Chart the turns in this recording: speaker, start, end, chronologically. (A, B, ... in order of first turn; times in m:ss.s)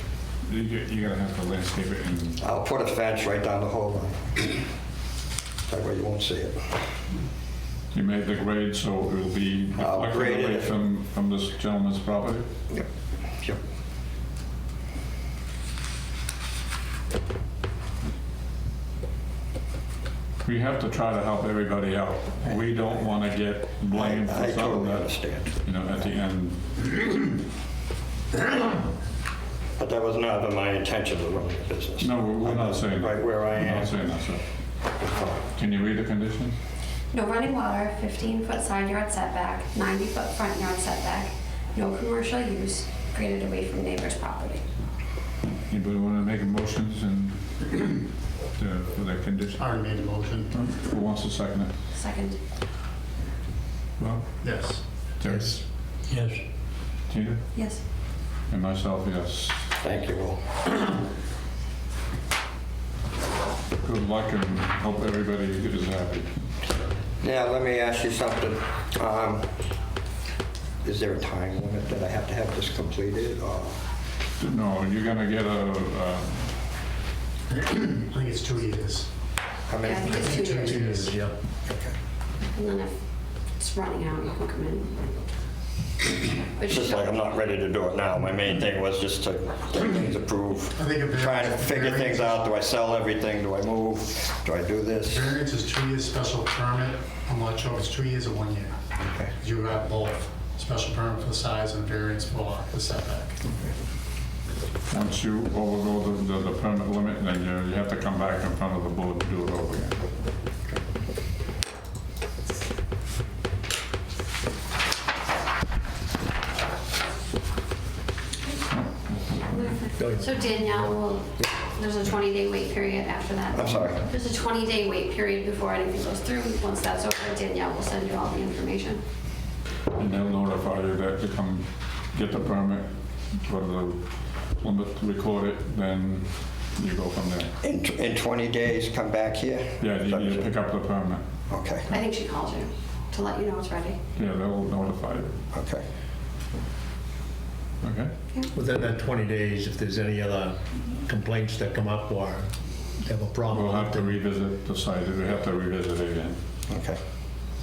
0:00.4-0:02.4 A
0:02.4-0:04.6 B
0:05.7-0:06.8 B
0:07.9-0:12.5 A
0:09.8-0:10.7 B
0:20.4-0:26.9 A
0:23.9-0:25.5 B
0:29.8-0:34.0 B
0:32.0-0:34.4 A
0:35.1-0:35.4 B
0:35.5-0:36.6 A
0:37.1-0:44.6 C
0:45.7-0:48.0 A
0:48.6-0:49.6 A
0:49.6-0:50.6 D
0:50.5-0:51.7 A
0:51.9-0:52.4 C
0:54.0-0:54.3 A
0:54.4-0:55.0 D
0:55.2-0:55.6 A
0:55.2-0:56.4 E
0:57.1-0:57.4 A
0:57.5-0:57.8 C
0:58.5-0:59.7 A
0:59.8-1:00.7 B
1:03.8-1:06.3 A
1:07.2-1:09.6 B
1:10.8-1:13.8 B
1:14.4-1:16.6 A
1:17.9-1:19.1 D
1:19.7-1:20.5 B
1:19.8-1:20.9 C
1:20.0-1:21.1 D
1:20.6-1:21.4 E
1:21.7-1:22.0 B
1:22.5-1:22.9 C
1:23.6-1:25.0 C
1:26.6-1:27.5 C
1:26.7-1:35.3 B
1:30.8-1:32.4 D
1:35.1-1:38.7 D
1:39.0-1:39.3 B
1:39.4-1:43.4 D
1:43.5-1:43.7 B
1:44.9-1:50.0 A
1:58.7-1:59.8 A
1:59.5-2:09.0 C
2:00.0-2:01.0 E
2:03.5-2:04.0 B
2:09.9-2:17.5 A
2:17.6-2:20.5 B
2:19.8-2:21.2 A
2:21.5-2:22.0 B
2:21.9-2:24.0 C
2:24.2-2:25.4 A
2:25.5-2:25.8 B
2:27.8-2:28.1 A
2:28.5-2:34.2 E
2:33.5-2:36.4 A
2:36.7-2:37.0 B